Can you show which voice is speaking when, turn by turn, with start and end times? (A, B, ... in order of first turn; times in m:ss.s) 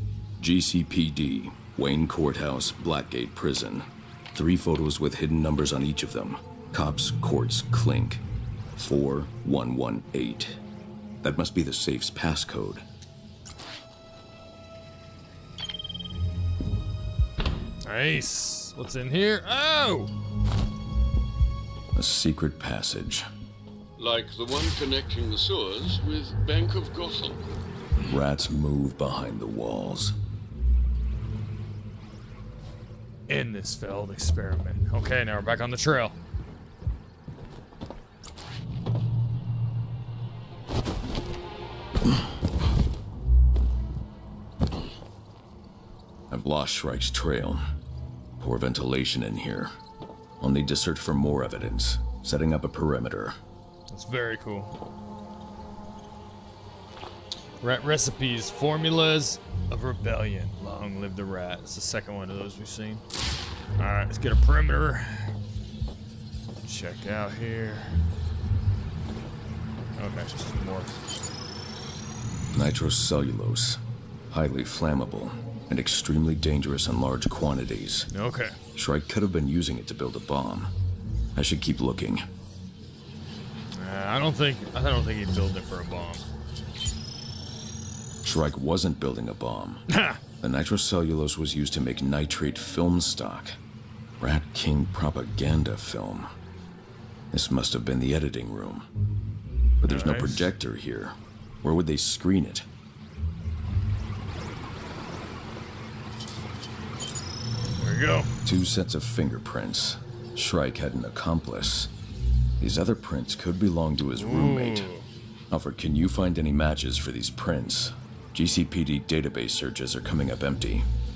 0:00.4-0:08.2 A
0:08.8-0:10.6 A
0:11.2-0:12.8 A
0:17.8-0:20.1 B
0:22.0-0:23.3 A
0:24.0-0:27.4 C
0:28.1-0:30.2 A
0:33.3-0:36.2 B
0:46.3-0:47.6 A
0:48.4-0:49.7 A
0:50.4-0:53.4 A
0:53.9-0:54.7 B
0:57.6-1:03.0 B
1:03.8-1:05.3 B
1:06.7-1:08.0 B
1:10.0-1:10.9 B
1:12.5-1:13.8 A
1:14.3-1:18.1 A
1:18.1-1:18.6 B
1:18.8-1:20.7 A
1:21.4-1:22.3 A
1:23.7-1:26.2 B
1:28.2-1:29.9 A
1:29.9-1:30.2 B
1:30.4-1:33.6 A
1:34.2-1:36.3 A
1:37.3-1:38.9 A
1:39.8-1:42.7 A
1:39.9-1:40.4 B
1:47.8-1:48.3 B
1:48.4-1:51.9 A
1:52.6-1:54.9 A
1:54.2-1:55.1 B
1:55.5-2:00.9 A